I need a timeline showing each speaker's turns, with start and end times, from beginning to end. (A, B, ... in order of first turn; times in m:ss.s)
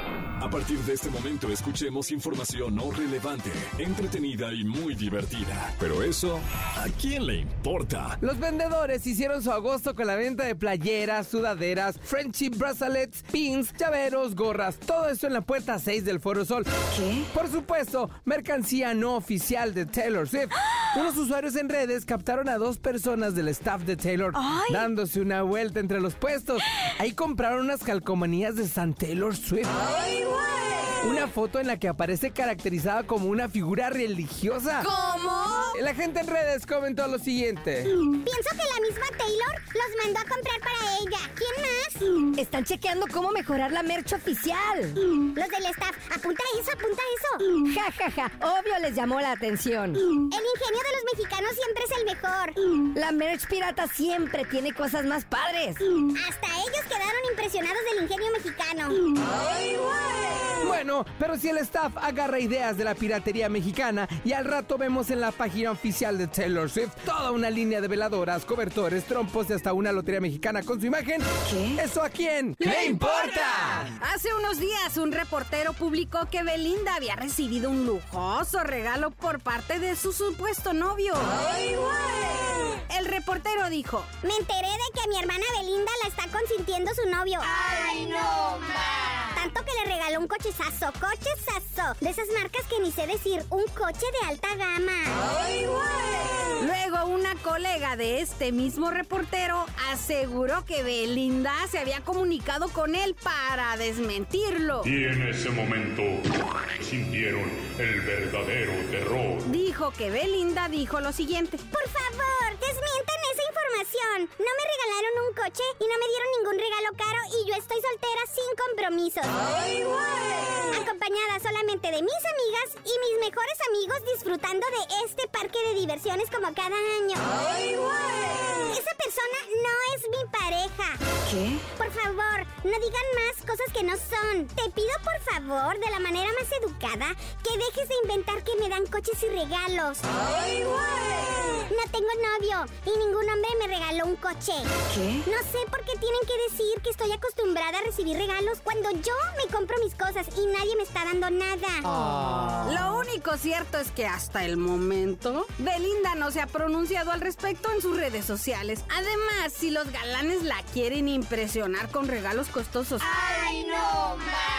0:00.4-0:08.2 A
0:08.2-0:29.9 B
0:31.0-0:34.9 B
0:35.0-0:35.7 C
0:35.7-0:37.9 B
0:38.2-0:42.2 D
0:42.4-0:45.0 E
0:45.3-0:47.6 D
0:47.6-0:50.1 E
0:50.3-0:52.6 D
0:52.9-0:55.9 E
0:56.1-0:59.1 D
1:00.6-1:13.9 B
1:13.9-1:22.1 C
1:22.9-1:24.1 C
1:24.2-1:27.7 D
1:27.6-1:28.4 C
1:29.3-1:35.2 D
1:36.6-1:44.9 C
1:44.8-1:49.5 F
1:49.5-1:51.6 C
1:51.7-2:11.2 D
2:11.8-2:20.6 D
2:21.7-2:24.7 D
2:25.2-2:31.9 D
2:32.6-2:43.8 C